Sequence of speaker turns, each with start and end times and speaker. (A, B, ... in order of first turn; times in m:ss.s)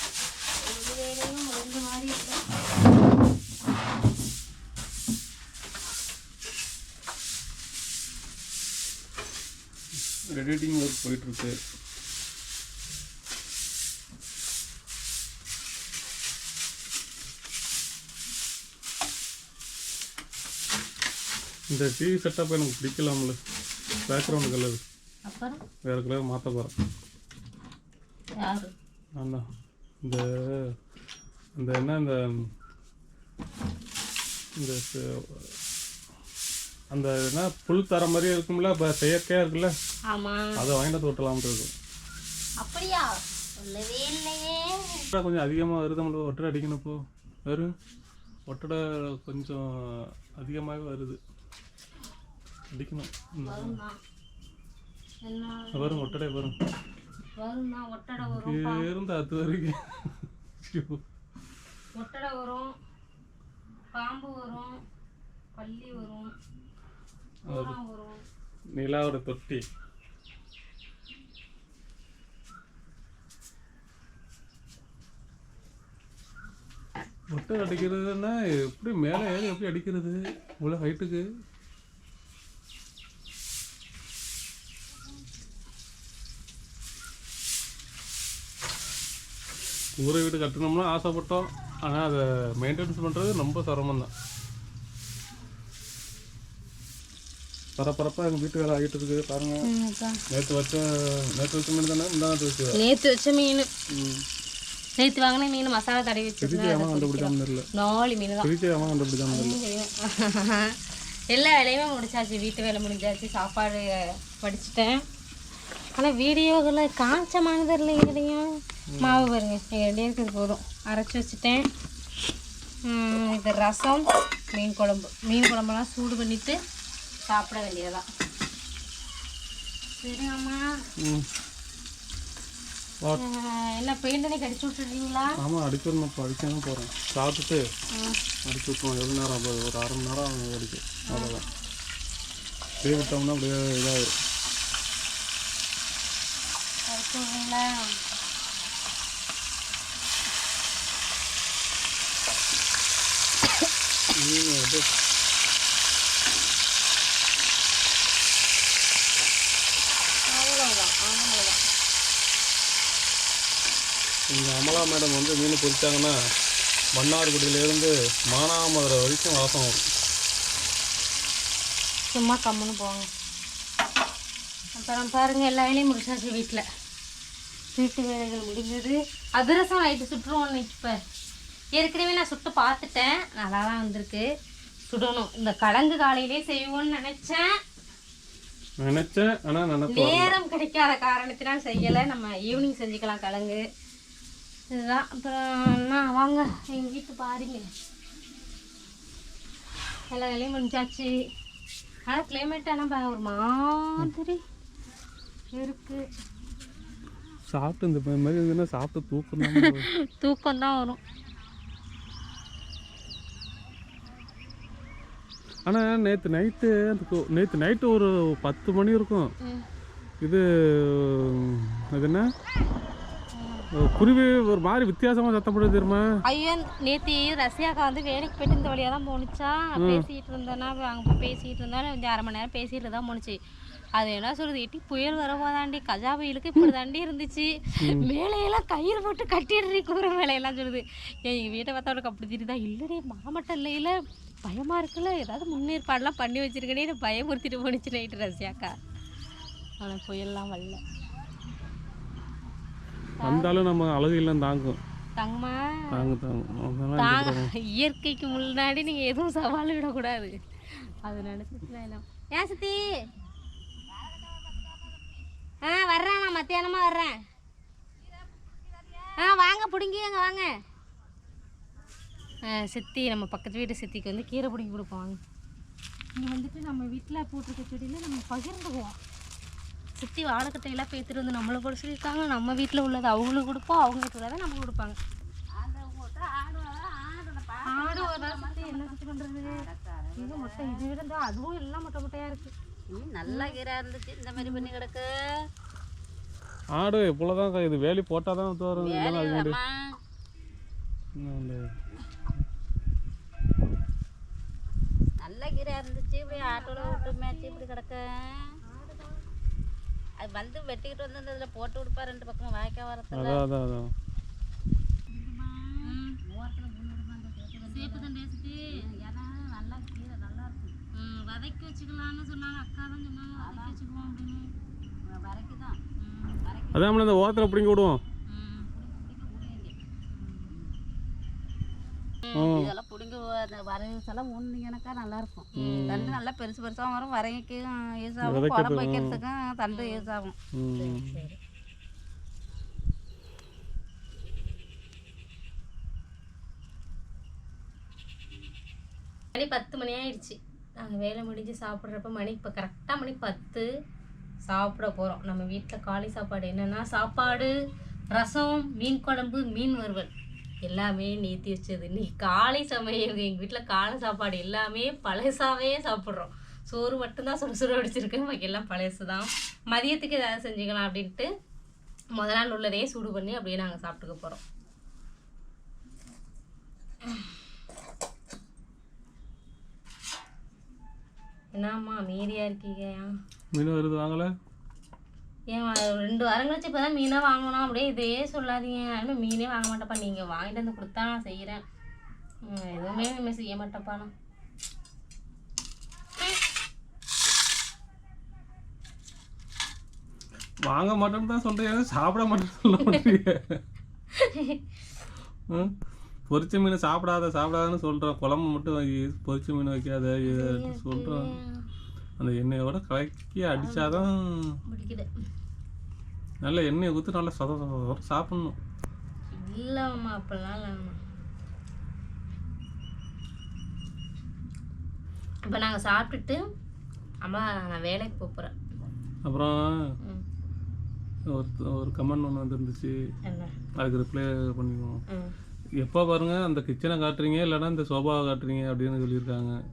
0:00.6-0:02.4 A
0:10.3-0:11.6 B
0:21.7-0:23.4 B
0:24.0-0:24.8 B
0:25.2-0:25.6 A
0:25.8-0:26.7 B
0:28.4-0:28.7 A
0:29.2-0:29.4 B
0:30.0-0:30.5 B
0:31.6-0:32.2 B
0:34.6-0:35.5 B
0:36.9-0:39.7 B
0:40.1-0:40.6 A
0:40.6-0:41.7 B
0:42.6-0:45.0 A
0:45.1-0:47.7 B
0:48.4-0:51.2 B
0:52.7-0:53.8 B
0:53.4-0:54.0 A
0:55.2-0:56.2 A
0:55.7-0:56.6 B
0:57.4-0:58.9 A
0:58.2-1:01.0 B
1:01.9-1:02.7 A
1:03.9-1:04.8 A
1:05.6-1:06.3 A
1:07.5-1:07.8 B
1:07.5-1:08.2 A
1:08.8-1:09.6 B
1:17.3-1:21.2 B
1:30.0-1:34.1 B
1:37.8-1:39.6 B
1:39.6-1:40.2 A
1:40.3-1:42.8 B
1:42.7-1:43.7 A
1:43.9-1:44.2 B
1:45.0-1:48.5 A
1:46.4-1:47.6 B
1:48.4-1:49.6 B
1:49.3-1:50.7 A
1:51.3-1:55.0 A
1:56.0-1:58.5 A
1:58.9-1:59.3 B
1:59.0-2:01.6 A
2:02.8-2:06.6 A
2:07.3-2:08.0 A
2:10.0-2:10.6 A
2:11.0-2:11.3 B
2:13.1-2:15.4 A
2:15.4-2:17.6 B
2:17.9-2:18.2 A
2:18.4-2:21.4 B
2:21.1-2:21.4 A
2:22.8-2:24.1 B
2:26.9-2:28.0 A
2:34.2-2:34.9 B
2:40.3-2:41.6 A
2:44.3-2:46.1 B
2:47.0-2:49.8 B
2:52.1-2:53.1 A
2:54.8-2:56.6 A
2:57.7-3:00.9 A
3:01.8-3:04.3 A
3:04.9-3:07.6 A
3:08.8-3:10.3 B
3:09.9-3:13.6 A
3:14.7-3:17.7 A
3:20.1-3:21.1 A
3:22.1-3:24.4 A
3:25.5-3:26.0 A
3:27.5-3:29.9 B
3:29.4-3:31.0 A
3:35.7-3:39.3 B
3:40.2-3:42.3 B
3:43.3-3:43.7 A
3:43.7-3:46.1 B
3:46.2-3:53.4 A
3:49.8-3:50.0 B
3:53.9-4:08.7 A
3:57.8-3:58.1 B
4:09.8-4:10.8 A
4:13.2-4:13.6 A
4:13.2-4:14.8 B
4:15.2-4:16.1 A
4:15.9-4:17.5 B
4:17.0-4:20.3 A
4:20.9-4:22.9 A
4:25.6-4:27.2 A
4:29.2-4:30.5 A
4:32.4-4:35.2 A
4:36.2-4:39.0 A
4:40.0-4:45.0 A
4:45.5-4:50.8 C
4:47.7-4:49.6 A
4:50.2-4:52.5 A
4:52.9-4:55.1 C
4:53.2-4:53.6 A
4:54.4-4:54.7 A
4:56.7-4:59.6 B
4:58.7-5:00.0 C
5:01.2-5:01.6 B
5:05.2-5:08.5 C
5:06.3-5:07.6 A
5:08.6-5:09.2 A
5:10.2-5:13.4 C
5:13.1-5:13.9 B
5:15.1-5:18.1 C
5:15.8-5:16.2 A
5:17.6-5:18.7 A
5:18.9-5:20.8 C
5:20.9-5:24.5 A
5:23.4-5:23.8 C
5:25.0-5:25.9 C
5:26.0-5:26.4 A
5:26.4-5:26.8 C
5:26.7-5:28.0 B
5:28.4-5:29.8 C
5:30.1-5:30.5 A
5:32.2-5:32.5 A
5:32.3-5:32.7 B
5:32.5-5:40.3 C
5:35.5-5:36.1 A
5:35.6-5:36.2 B
5:38.2-5:39.2 B
5:39.7-5:40.1 A
5:40.5-5:41.2 B
5:40.8-5:41.4 A
5:49.3-5:53.7 A
5:54.5-5:57.5 A
5:58.1-6:00.1 A
6:00.6-6:11.3 A
6:12.1-6:14.4 A
6:21.5-6:23.1 A
6:23.5-6:24.3 B
6:25.5-6:31.6 A
6:32.4-6:34.1 A
6:40.7-6:43.6 B
6:44.1-6:44.6 A
6:46.3-6:51.4 B
6:50.2-6:51.6 A
6:52.2-6:54.1 B
6:53.6-6:54.1 A
6:54.7-6:55.1 A
6:56.4-6:58.6 B
6:59.3-7:01.0 A
7:05.4-7:06.4 A
7:07.2-7:08.5 A
7:09.2-7:09.8 B
7:11.3-7:13.0 B
7:13.2-7:13.5 A
7:13.8-7:15.0 B
7:15.1-7:15.3 A
7:15.8-7:19.6 B